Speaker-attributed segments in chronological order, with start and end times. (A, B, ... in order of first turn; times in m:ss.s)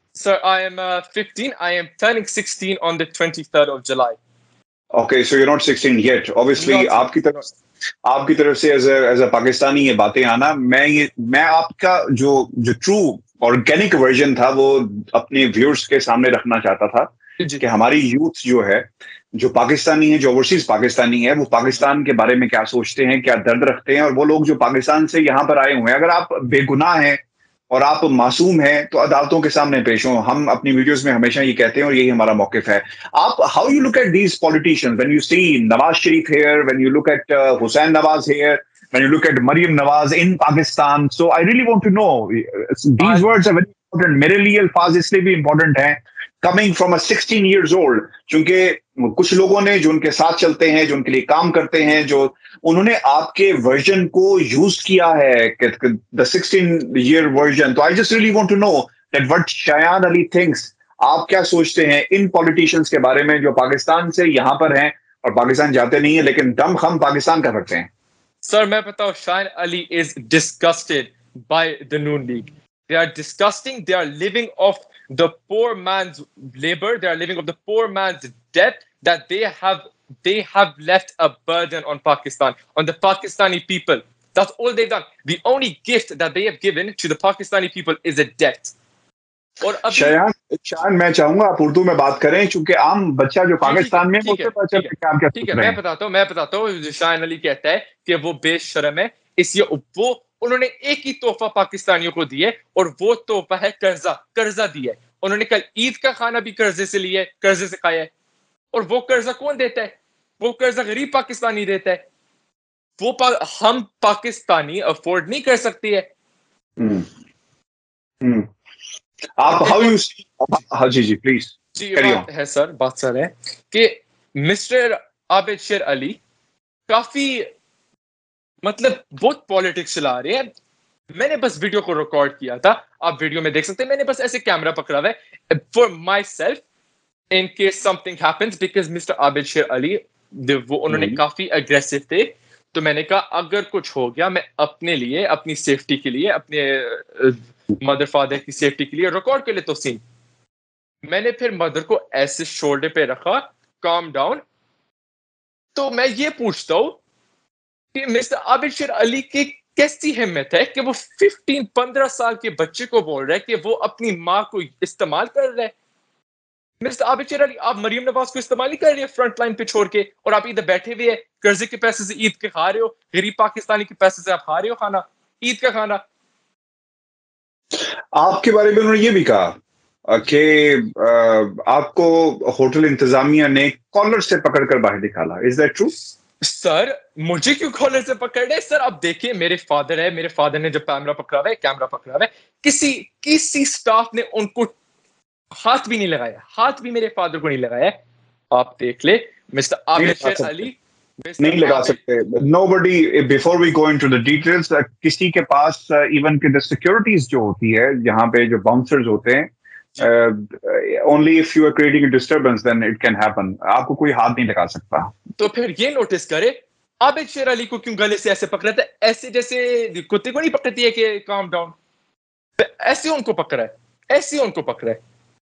0:00.1-0:04.2 A
0:04.9-0:07.4 B
0:06.6-0:07.5 A
0:08.0-0:27.2 B
0:27.7-1:07.9 B
0:43.0-0:43.3 A
1:08.4-1:28.7 A
1:29.6-1:30.2 A
1:29.9-1:35.8 B
1:33.6-1:48.1 A
1:48.7-1:52.0 A
1:53.0-1:56.0 A
1:56.8-1:57.0 B
1:58.2-1:58.5 B
1:59.4-2:02.2 B
1:59.6-2:00.0 A
2:01.7-2:06.2 A
2:06.9-2:07.5 A
2:08.6-2:10.5 A
2:11.1-2:16.6 A
2:17.3-2:30.0 A
2:20.9-2:21.2 B
2:31.0-2:34.4 A
2:35.7-2:37.0 A
2:37.9-2:45.7 A
2:46.8-2:56.0 A
2:58.1-2:59.5 B
3:00.1-3:05.9 B
3:06.4-3:14.7 A
3:15.5-3:17.9 A
3:18.5-3:22.0 A
3:20.0-3:20.7 B
3:21.4-3:35.1 B
3:35.4-3:41.7 A
3:42.6-3:45.0 A